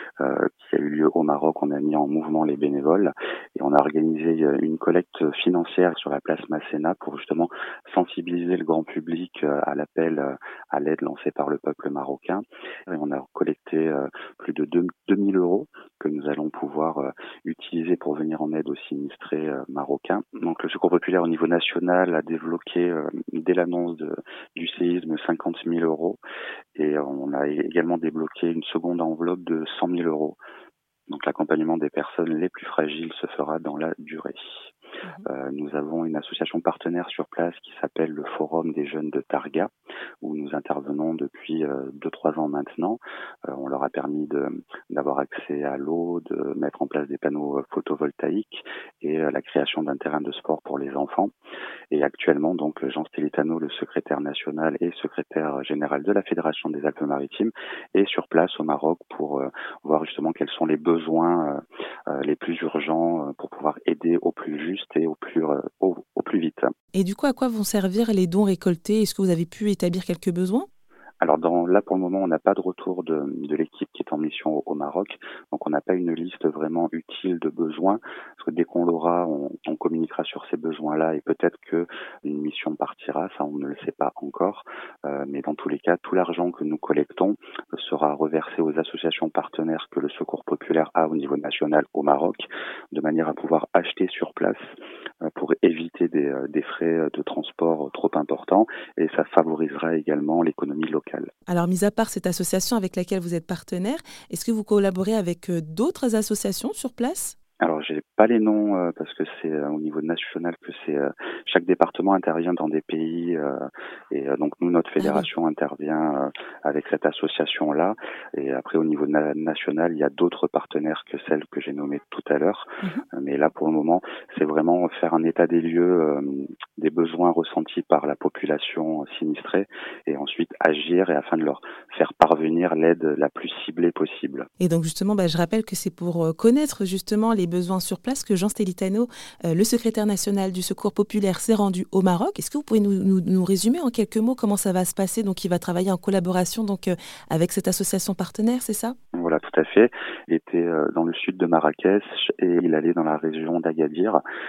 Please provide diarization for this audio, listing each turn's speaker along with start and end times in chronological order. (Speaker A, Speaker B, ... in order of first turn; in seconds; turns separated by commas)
Speaker A: 0.2-26.2, Speaker A: 26.7-30.4, Speaker A: 31.1-34.5, Speaker A: 35.2-51.3, Speaker A: 51.9-66.7, Speaker B: 66.9-70.7, Speaker A: 71.2-94.7, Speaker A: 95.2-101.3, Speaker B: 101.5-107.4, Speaker A: 107.6-134.5, Speaker B: 115.0-115.3, Speaker B: 134.6-148.9, Speaker A: 149.1-154.2